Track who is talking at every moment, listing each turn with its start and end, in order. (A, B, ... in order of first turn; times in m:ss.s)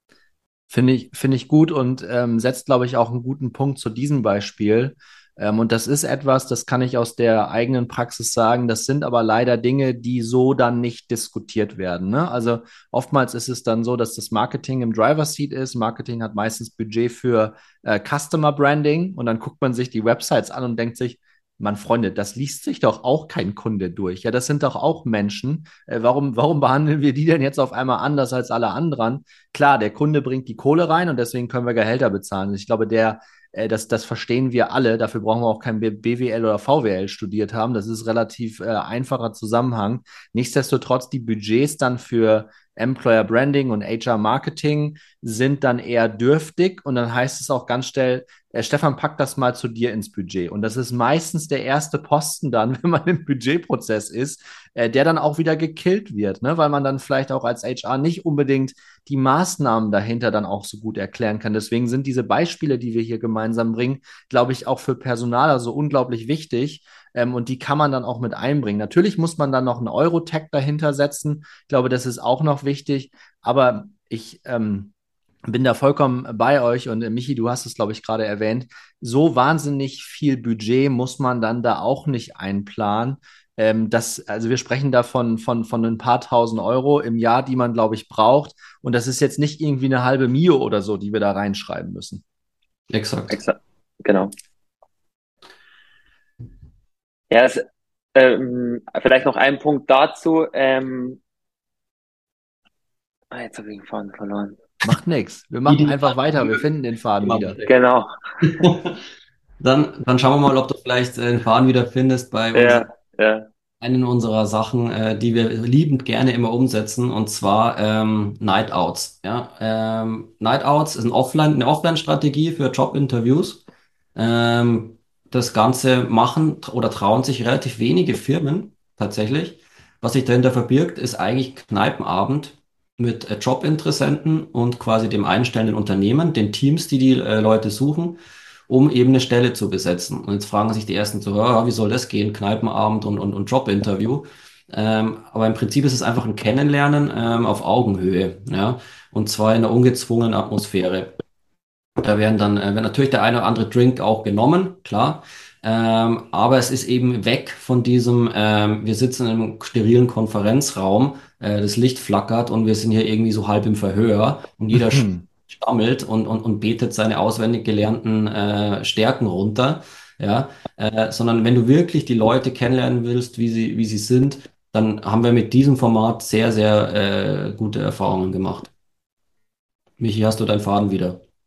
0:00.7-1:14.9 A
1:15.5-1:32.2 A
1:32.9-1:33.4 B
1:33.3-1:34.3 C
1:37.3-1:37.6 C
1:38.2-1:41.2 C
1:43.3-1:44.6 C
1:44.8-1:47.6 A
1:45.7-1:46.6 B
1:47.2-1:47.7 B
1:47.6-1:48.7 C
1:48.4-1:49.0 B
1:49.6-1:52.9 B
1:52.5-1:53.5 C
1:53.8-2:03.6 B
2:04.2-2:31.1 B
2:32.0-2:58.7 B
2:44.7-2:45.2 A
3:00.0-3:01.2 B